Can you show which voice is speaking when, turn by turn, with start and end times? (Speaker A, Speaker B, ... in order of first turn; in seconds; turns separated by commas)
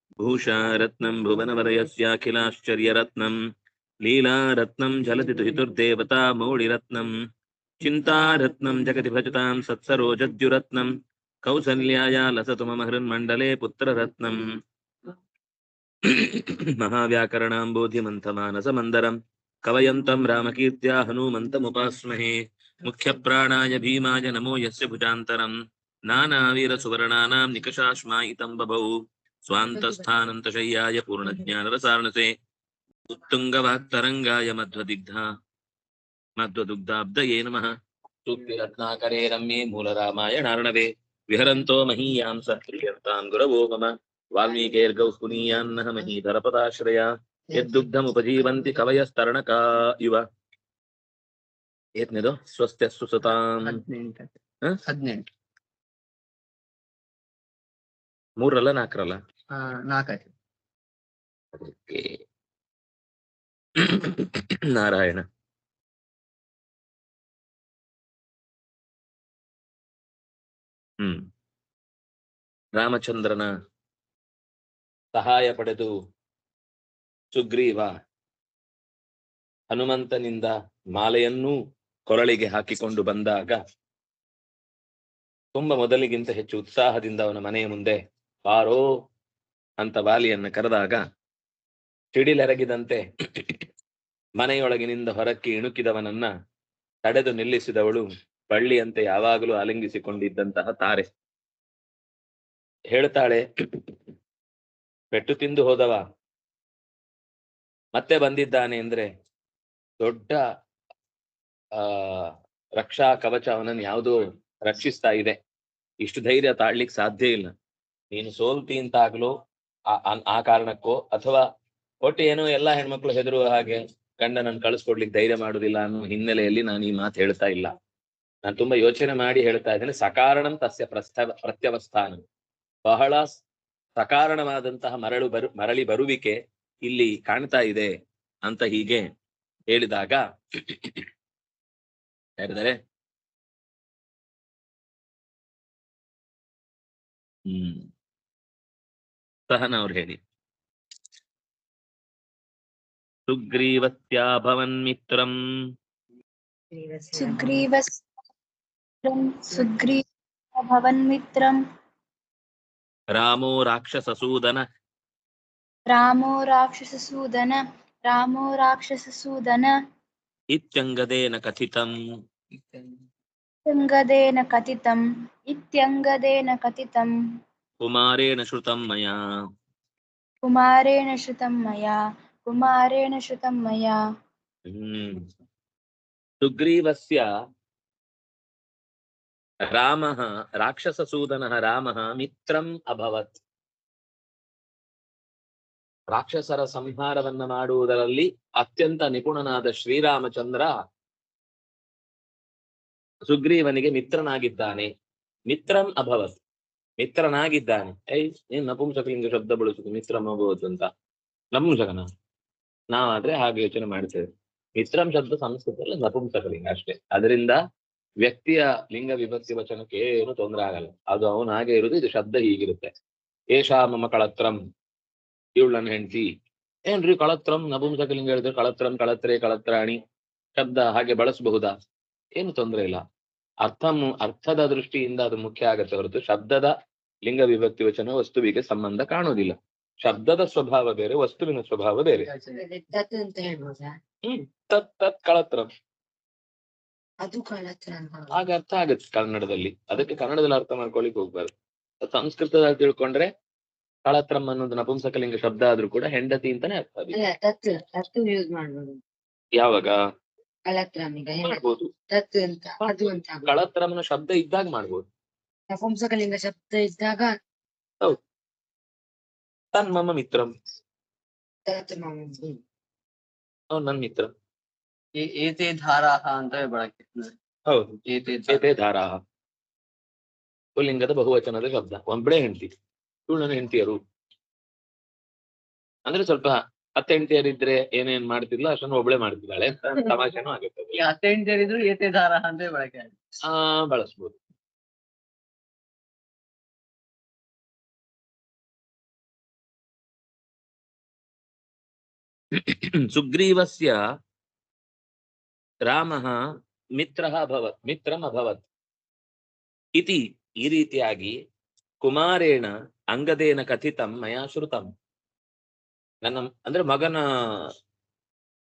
Speaker A: 0.2-3.4, Speaker A: 4.0-7.1, Speaker A: 7.8-10.9, Speaker A: 11.4-14.5, Speaker A: 16.1-25.6, Speaker A: 26.1-29.0, Speaker A: 29.5-32.3, Speaker A: 33.1-35.3, Speaker A: 36.4-37.7, Speaker A: 38.3-50.2, Speaker A: 52.0-53.8, Speaker B: 53.7-54.3, Speaker B: 54.9-55.3, Speaker A: 58.4-59.2, Speaker B: 59.5-60.3, Speaker A: 61.6-62.2, Speaker A: 63.8-65.2, Speaker A: 71.0-71.3, Speaker A: 72.8-73.5, Speaker A: 75.2-75.9, Speaker A: 77.3-77.9, Speaker A: 79.7-81.5, Speaker A: 82.1-83.6, Speaker A: 85.5-88.9, Speaker A: 89.8-91.0, Speaker A: 92.2-93.6, Speaker A: 94.4-96.3, Speaker A: 97.0-101.0, Speaker A: 102.9-103.4, Speaker A: 105.1-106.0, Speaker A: 108.0-109.1, Speaker A: 110.0-110.4, Speaker A: 111.8-115.4, Speaker A: 116.0-117.5, Speaker A: 118.1-119.3, Speaker A: 119.9-121.4, Speaker A: 122.0-127.7, Speaker A: 128.5-132.2, Speaker A: 132.9-133.4, Speaker A: 134.0-137.9, Speaker A: 138.4-139.1, Speaker A: 139.7-141.1, Speaker A: 142.4-142.8, Speaker A: 147.5-147.9, Speaker A: 149.5-150.2, Speaker A: 153.3-155.3, Speaker C: 156.7-157.7, Speaker D: 157.2-158.0, Speaker D: 159.1-160.0, Speaker D: 160.6-161.6, Speaker A: 163.2-164.6, Speaker D: 165.9-169.7, Speaker A: 170.5-171.9, Speaker B: 172.6-172.9, Speaker D: 173.7-177.1, Speaker A: 177.8-179.2, Speaker D: 180.4-184.0, Speaker A: 184.7-185.2, Speaker A: 186.4-187.2, Speaker A: 189.7-193.4, Speaker A: 196.1-200.7, Speaker A: 203.3-204.9, Speaker A: 205.5-206.4, Speaker A: 207.0-210.9, Speaker A: 211.5-212.1, Speaker A: 212.9-214.2, Speaker A: 214.8-217.6, Speaker A: 218.2-222.9, Speaker A: 223.5-224.6, Speaker A: 225.6-226.3, Speaker A: 226.9-230.0, Speaker A: 230.6-231.7, Speaker A: 232.4-233.0, Speaker A: 233.7-236.7, Speaker A: 237.3-242.3, Speaker C: 242.5-243.9, Speaker A: 244.2-245.7, Speaker C: 247.2-248.3, Speaker A: 248.3-251.5, Speaker A: 252.0-253.3, Speaker A: 254.1-257.2, Speaker C: 257.1-259.0, Speaker A: 259.6-260.0, Speaker C: 260.7-263.6, Speaker A: 261.4-261.9, Speaker A: 263.5-265.0, Speaker C: 265.7-267.4, Speaker A: 269.7-270.5, Speaker C: 271.7-272.6, Speaker A: 273.7-274.3, Speaker B: 275.2-277.3, Speaker B: 278.1-278.7, Speaker A: 278.5-279.2, Speaker A: 280.8-282.7, Speaker A: 283.3-284.0, Speaker A: 286.1-290.9, Speaker B: 291.0-293.1, Speaker A: 293.5-294.4, Speaker A: 302.6-304.0, Speaker A: 305.9-306.4, Speaker A: 307.0-308.6, Speaker A: 310.0-311.4, Speaker A: 312.0-314.9, Speaker A: 316.2-317.6